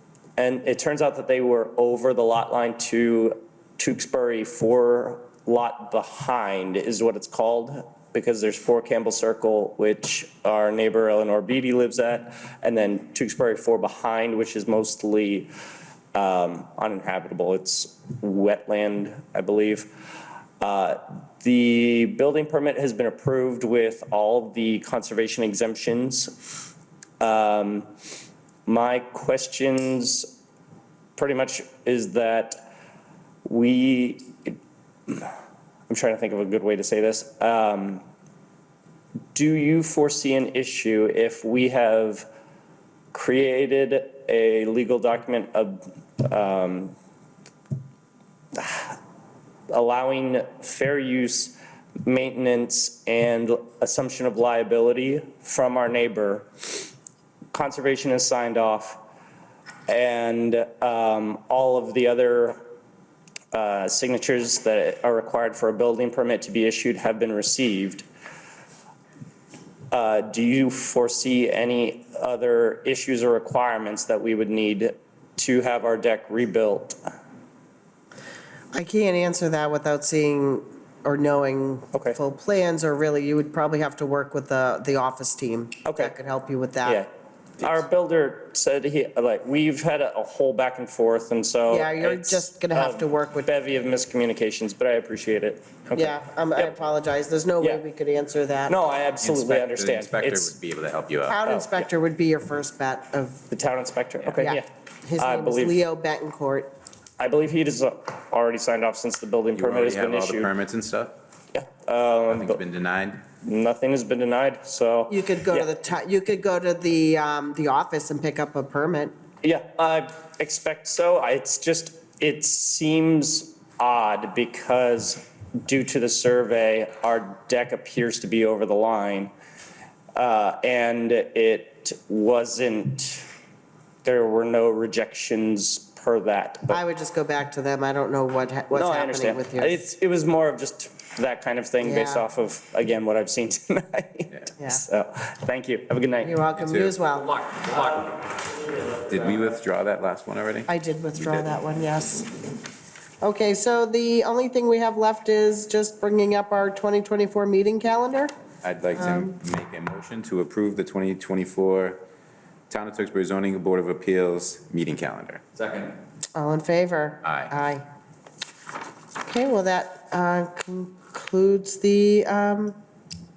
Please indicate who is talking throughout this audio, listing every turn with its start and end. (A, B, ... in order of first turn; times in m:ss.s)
0:00.4-0:15.5 A
0:16.1-0:19.9 A
0:20.6-0:26.3 A
0:27.2-0:27.9 A
0:28.6-0:30.3 A
0:31.2-0:32.6 A
0:33.4-0:34.6 A
0:35.1-0:35.3 A
0:35.9-0:38.0 A
0:39.3-0:42.3 A
0:43.1-0:46.9 A
0:48.5-0:49.0 A
0:49.7-0:56.8 A
0:57.5-0:59.0 A
0:59.9-1:02.6 A
1:03.5-1:08.0 A
1:09.9-1:17.0 A
1:18.7-1:27.0 B
1:21.9-1:22.2 A
1:25.8-1:26.1 A
1:27.6-1:36.7 A
1:31.7-1:33.5 B
1:35.9-1:38.9 B
1:38.7-1:40.5 A
1:39.2-1:41.4 C
1:41.2-1:43.4 B
1:41.4-1:41.9 A
1:43.5-1:44.7 A
1:44.2-1:44.5 C
1:44.4-1:46.7 B
1:45.2-1:45.8 A
1:47.2-1:50.5 A
1:49.5-1:51.2 C
1:51.5-1:52.6 A
1:52.3-1:53.2 C
1:53.4-1:55.7 A
1:55.1-1:59.1 B
1:59.4-2:09.3 A
2:10.1-2:13.3 A
2:14.0-2:16.8 A
2:16.7-2:19.8 B
2:18.7-2:26.4 A
2:21.8-2:22.2 B
2:24.6-2:24.8 B
2:26.2-2:27.3 B
2:26.6-2:27.0 C
2:27.1-2:28.4 A
2:29.1-2:30.7 C
2:30.7-2:32.3 B
2:31.2-2:31.6 C
2:33.2-2:38.3 B
2:38.6-2:42.0 C
2:39.0-2:39.3 B
2:42.7-2:45.9 C
2:46.3-2:47.8 B
2:47.2-2:47.5 C
2:49.2-2:52.8 B